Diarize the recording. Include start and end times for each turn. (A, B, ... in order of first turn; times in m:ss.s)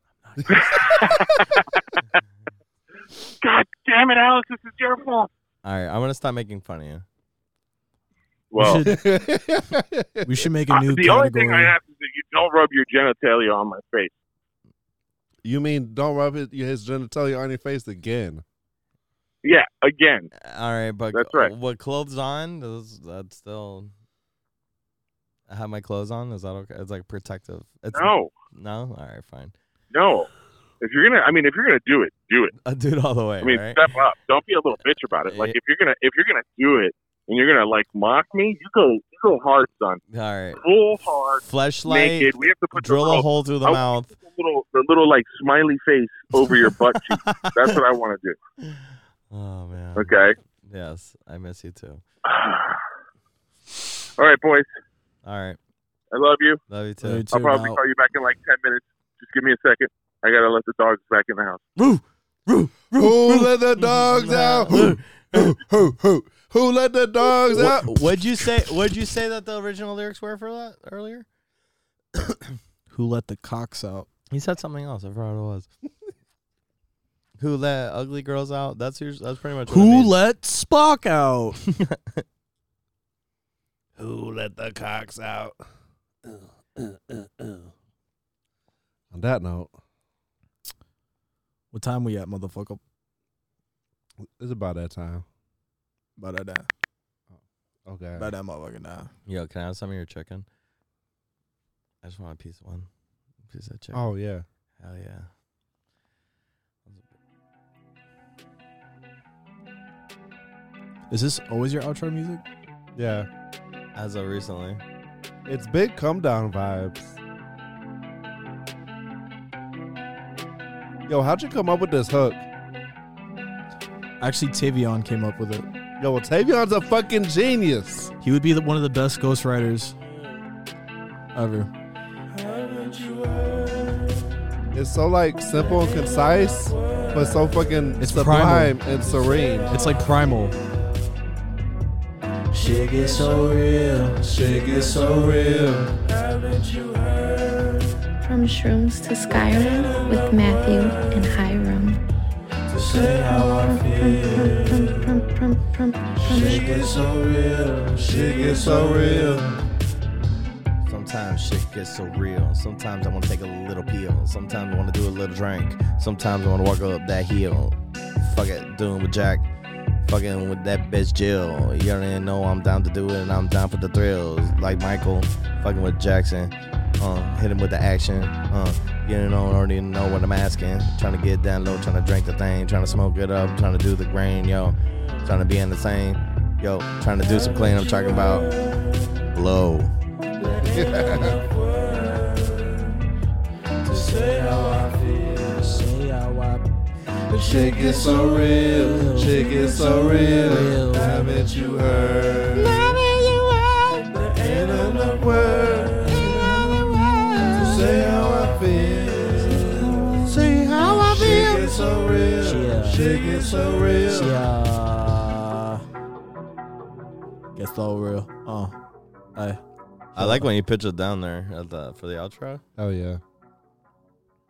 0:00.4-0:01.1 A
0:00.5-0:02.2 B
0:03.4-0:05.3 B
0:05.6-0:07.0 C
0:08.5-0:08.8 B
0:08.6-0:09.0 D
0:08.8-0:10.3 A
0:10.2-0:11.7 D
0:10.7-0:14.1 B
0:15.4-0:18.4 A
0:19.4-0:20.3 B
0:20.4-0:23.9 C
0:21.1-0:21.5 B
0:25.5-0:29.5 C
0:27.9-0:28.3 B
0:29.9-0:30.3 B
0:30.8-0:32.5 B
0:32.6-0:33.8 C
0:33.4-0:40.0 B
0:35.3-0:35.6 C
0:40.1-0:40.6 C
0:40.6-0:48.4 B
0:41.4-0:44.1 C
0:47.0-0:47.8 C
0:48.6-0:52.0 C
0:50.0-0:50.4 B
0:52.2-0:52.8 B
0:54.2-0:54.7 B
0:55.2-0:55.6 C
0:56.1-0:56.6 B
0:56.7-0:57.3 C
0:57.0-0:57.8 D
0:57.3-1:01.6 B
1:02.9-1:08.6 A
1:03.8-1:05.6 C
1:07.5-1:11.2 C
1:12.9-1:14.1 D
1:14.3-1:15.7 C
1:17.4-1:20.1 C
1:19.7-1:21.6 D
1:21.8-1:22.2 C
1:24.0-1:25.6 A
1:26.2-1:27.7 A
1:29.1-1:29.7 A
1:31.7-1:32.8 D
1:34.2-1:35.2 A
1:36.2-1:36.7 D
1:37.3-1:38.3 A
1:38.2-1:39.1 D
1:39.2-1:40.4 C
1:42.0-1:42.9 C
1:43.5-1:44.0 C
1:43.9-1:44.4 A
1:44.8-1:45.3 C
1:51.1-1:52.4 D
1:52.9-1:53.3 A
1:53.9-1:54.8 C
1:55.4-1:57.2 A
2:01.1-2:02.4 A
2:04.2-2:05.7 D
2:06.0-2:08.1 A
2:08.2-2:10.0 D
2:11.3-2:11.7 D
2:14.7-2:19.7 A
2:18.0-2:18.8 D
2:19.7-2:20.6 D
2:22.5-2:25.9 D
2:28.2-2:32.0 E
2:32.7-2:35.1 D
2:33.0-2:36.9 E
2:36.2-2:39.5 D
2:38.1-2:39.5 A
2:40.8-2:49.5 C
2:50.0-3:08.5 C
3:09.3-3:09.9 C
3:10.5-3:11.4 A
3:11.0-3:11.3 D
3:13.8-3:16.6 D
3:17.3-3:23.0 A
3:18.4-3:21.2 D
3:22.6-3:24.1 C
3:24.3-3:34.3 A
3:26.1-3:27.8 C
3:30.2-3:31.8 C
3:32.4-3:33.1 D
3:34.0-3:35.8 D
3:37.6-3:38.8 D
3:39.3-3:39.6 D
3:40.1-3:40.5 D
3:40.2-3:42.6 C
3:42.8-3:43.2 A